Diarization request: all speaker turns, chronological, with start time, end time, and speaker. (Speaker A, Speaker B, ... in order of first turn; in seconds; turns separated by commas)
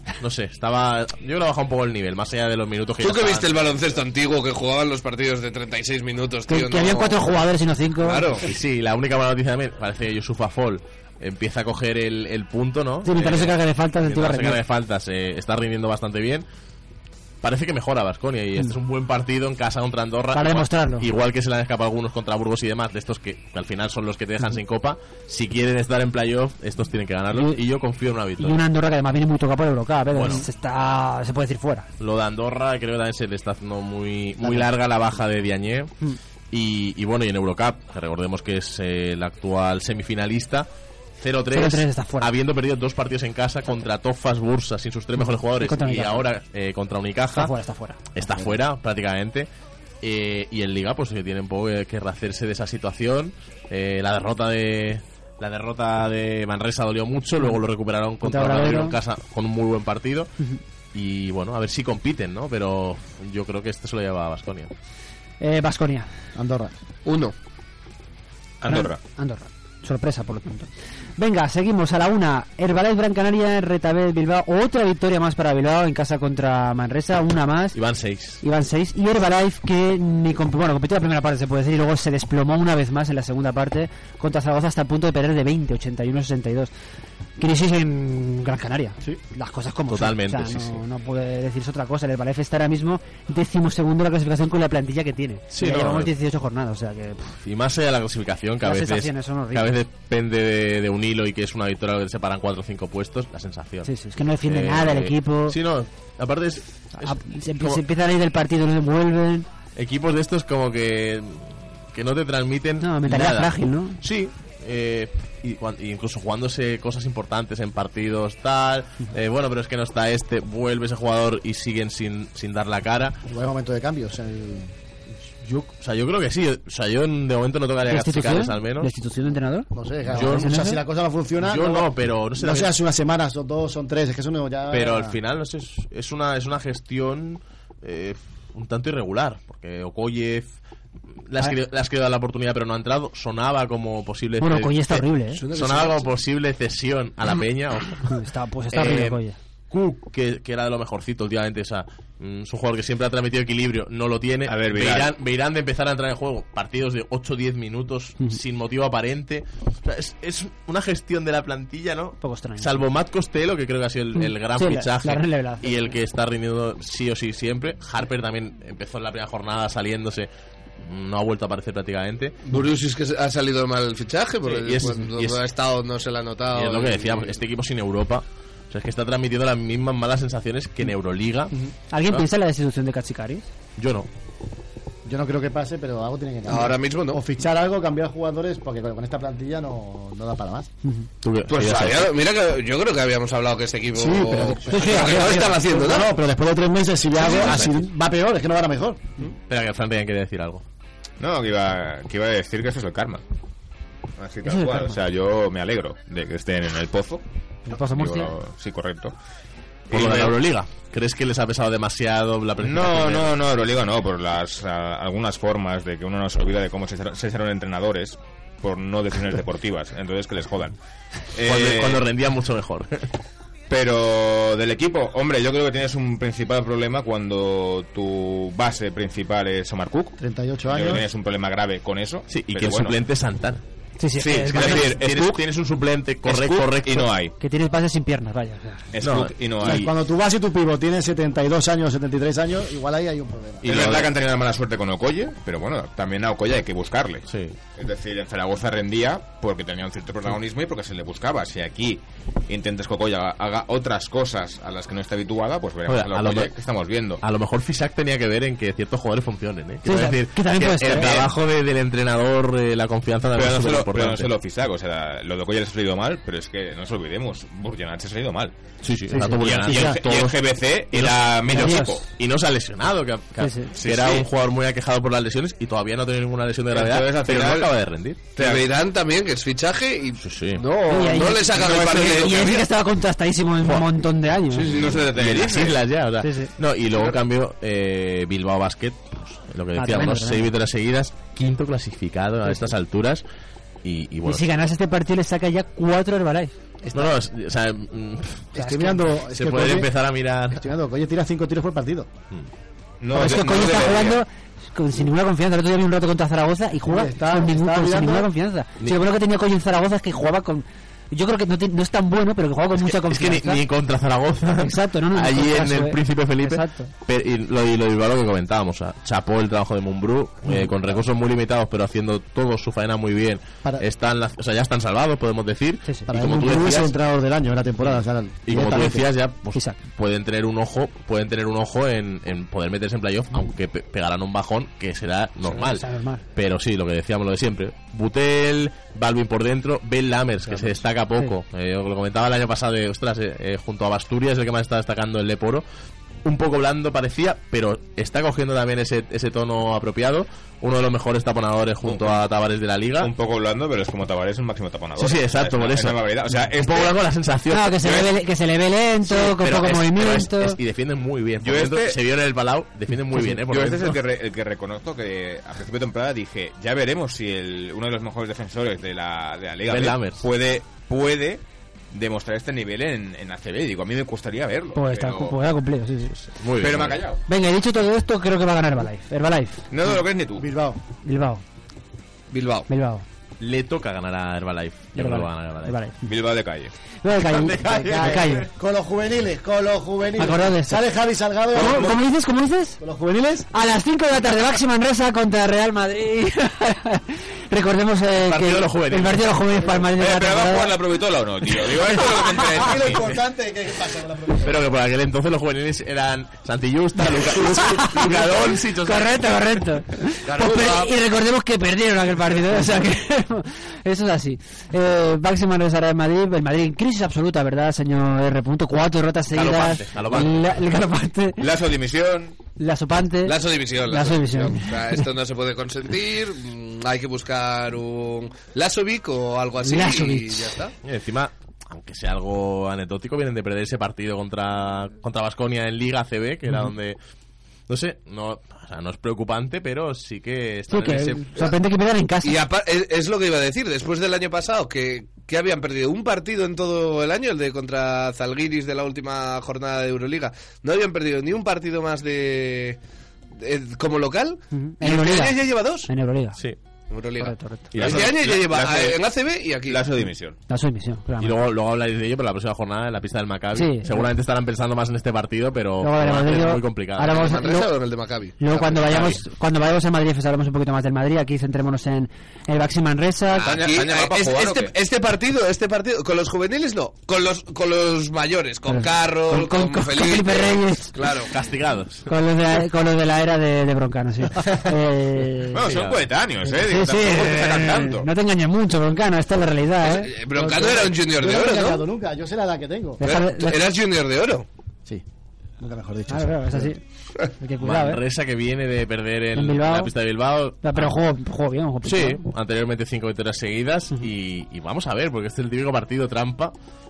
Speaker A: 0.2-3.6, Speaker B: 3.0-7.2, Speaker C: 6.5-8.3, Speaker B: 8.0-8.5, Speaker A: 8.4-16.4, Speaker C: 13.0-14.6, Speaker A: 17.4-28.6, Speaker C: 20.3-21.1, Speaker C: 27.3-27.6, Speaker C: 28.4-31.9, Speaker A: 30.1-30.4, Speaker A: 32.0-35.9, Speaker A: 36.5-47.5, Speaker C: 41.5-42.3, Speaker C: 45.2-46.3, Speaker C: 47.3-48.0, Speaker A: 48.1-49.5, Speaker A: 50.0-60.3, Speaker C: 58.2-59.0, Speaker A: 60.9-64.7, Speaker C: 65.4-66.1, Speaker D: 66.3-66.7, Speaker B: 67.0-67.3, Speaker E: 68.6-69.0, Speaker C: 68.7-77.8, Speaker A: 77.7-78.4, Speaker C: 78.4-86.7, Speaker C: 87.4-97.3, Speaker A: 89.9-90.8, Speaker A: 95.5-96.1, Speaker A: 97.4-103.9, Speaker C: 98.6-99.8, Speaker C: 103.8-105.6, Speaker A: 104.4-107.8, Speaker C: 107.0-109.5, Speaker A: 109.8-123.2, Speaker C: 112.8-114.0, Speaker D: 123.3-124.7, Speaker A: 125.4-128.9, Speaker C: 127.8-130.8, Speaker D: 129.7-135.2, Speaker A: 130.1-130.5, Speaker A: 131.4-132.7, Speaker A: 134.7-140.5, Speaker A: 141.2-148.1, Speaker C: 144.4-145.4, Speaker B: 145.4-146.1, Speaker C: 148.0-149.4, Speaker A: 148.7-149.2, Speaker A: 149.7-170.3, Speaker E: 154.5-155.1, Speaker C: 162.2-162.9, Speaker C: 164.1-166.0, Speaker A: 170.8-172.3, Speaker B: 172.4-177.3, Speaker A: 174.5-175.4, Speaker A: 176.5-181.5, Speaker C: 181.9-183.5, Speaker A: 183.8-184.1, Speaker D: 185.0-190.7, Speaker B: 186.5-187.2, Speaker A: 191.2-192.1, Speaker B: 191.5-196.1, Speaker D: 193.9-199.1, Speaker C: 194.7-195.6, Speaker A: 199.5-200.6, Speaker E: 201.2-203.2, Speaker E: 204.2-209.1, Speaker C: 204.4-205.0, Speaker C: 207.7-208.3, Speaker A: 209.9-213.3, Speaker E: 209.9-210.3, Speaker E: 212.6-220.7, Speaker E: 221.3-222.0, Speaker A: 221.4-223.0, Speaker E: 223.7-230.2, Speaker D: 230.2-231.0, Speaker E: 230.7-233.0, Speaker A: 232.3-233.6, Speaker C: 234.0-235.0, Speaker E: 234.2-235.7, Speaker A: 234.5-237.1, Speaker E: 236.2-237.3, Speaker C: 237.4-238.9, Speaker E: 238.9-239.8, Speaker A: 239.0-239.9, Speaker D: 239.6-243.8, Speaker A: 243.6-244.2, Speaker E: 243.7-257.2, Speaker A: 247.3-247.6, Speaker A: 255.8-256.5, Speaker A: 257.2-264.3, Speaker C: 259.8-261.2, Speaker E: 261.0-261.3, Speaker E: 263.3-268.6, Speaker A: 268.8-270.4, Speaker C: 269.2-269.9, Speaker E: 269.4-272.1, Speaker A: 270.9-278.3, Speaker C: 271.5-272.0, Speaker C: 273.4-273.7, Speaker E: 273.8-274.3, Speaker E: 276.7-277.7, Speaker B: 278.4-282.7, Speaker E: 278.4-278.6, Speaker A: 280.2-280.6, Speaker C: 280.9-284.9, Speaker E: 281.5-282.5, Speaker B: 284.5-285.0, Speaker E: 284.7-285.8, Speaker A: 284.9-293.2, Speaker C: 286.2-286.5, Speaker C: 289.8-290.5, Speaker A: 293.8-294.4, Speaker C: 294.2-296.5, Speaker D: 296.8-297.1, Speaker A: 296.9-298.5, Speaker D: 298.5-299.9, Speaker C: 298.6-299.0, Speaker A: 299.3-300.6, Speaker D: 300.5-302.1, Speaker E: 303.0-304.2, Speaker C: 303.1-313.6, Speaker D: 306.9-308.3, Speaker A: 312.8-326.9, Speaker C: 314.6-316.9, Speaker C: 325.8-326.1, Speaker D: 326.1-329.1, Speaker A: 328.4-345.6, Speaker C: 335.5-336.2, Speaker A: 346.2-353.1, Speaker E: 351.9-352.2, Speaker E: 353.0-357.0, Speaker A: 354.9-358.0, Speaker C: 357.5-360.6, Speaker A: 359.1-364.0, Speaker E: 361.4-362.0, Speaker E: 363.1-375.4, Speaker A: 369.7-370.2, Speaker C: 374.7-376.1, Speaker A: 376.2-377.0, Speaker E: 376.6-377.2, Speaker C: 377.3-379.6, Speaker E: 379.7-380.5, Speaker D: 380.4-380.8, Speaker C: 381.0-381.4, Speaker B: 382.3-382.7, Speaker C: 382.7-383.0, Speaker A: 383.4-385.8, Speaker C: 384.9-386.0, Speaker E: 386.0-386.7, Speaker C: 387.0-388.4, Speaker A: 387.3-388.4, Speaker D: 387.6-392.0, Speaker C: 390.2-390.8, Speaker C: 391.5-392.8, Speaker D: 392.8-393.5, Speaker C: 393.5-400.8, Speaker A: 398.2-399.4, Speaker E: 399.9-403.1, Speaker D: 402.5-404.6, Speaker A: 404.4-409.2, Speaker C: 407.1-421.4, Speaker A: 419.3-420.5, Speaker E: 421.4-422.4, Speaker C: 422.6-425.0, Speaker B: 423.2-430.7, Speaker C: 429.6-430.5, Speaker A: 430.8-437.0, Speaker A: 437.7-441.5, Speaker C: 440.7-442.4, Speaker B: 442.2-452.8, Speaker B: 453.4-455.9, Speaker C: 454.5-456.4, Speaker B: 456.9-459.8, Speaker C: 457.2-457.7, Speaker E: 457.7-459.0, Speaker A: 457.8-458.0, Speaker E: 459.7-460.4, Speaker C: 460.5-461.3, Speaker A: 461.2-467.2, Speaker C: 463.5-464.1, Speaker C: 465.8-467.7, Speaker B: 467.1-468.6, Speaker C: 468.4-473.5, Speaker A: 468.7-469.2, Speaker B: 473.3-481.3, Speaker E: 473.4-474.7, Speaker C: 478.7-480.9, Speaker A: 481.2-482.0, Speaker C: 482.1-485.6, Speaker E: 485.5-488.1, Speaker A: 485.6-486.0, Speaker C: 486.4-490.1, Speaker B: 489.8-491.8, Speaker D: 490.3-493.0, Speaker C: 493.0-493.6, Speaker B: 493.0-494.4, Speaker D: 495.6-496.7, Speaker C: 496.1-496.8, Speaker C: 497.4-498.0, Speaker A: 497.6-500.9, Speaker C: 499.3-499.9, Speaker C: 500.6-502.2, Speaker A: 501.8-506.5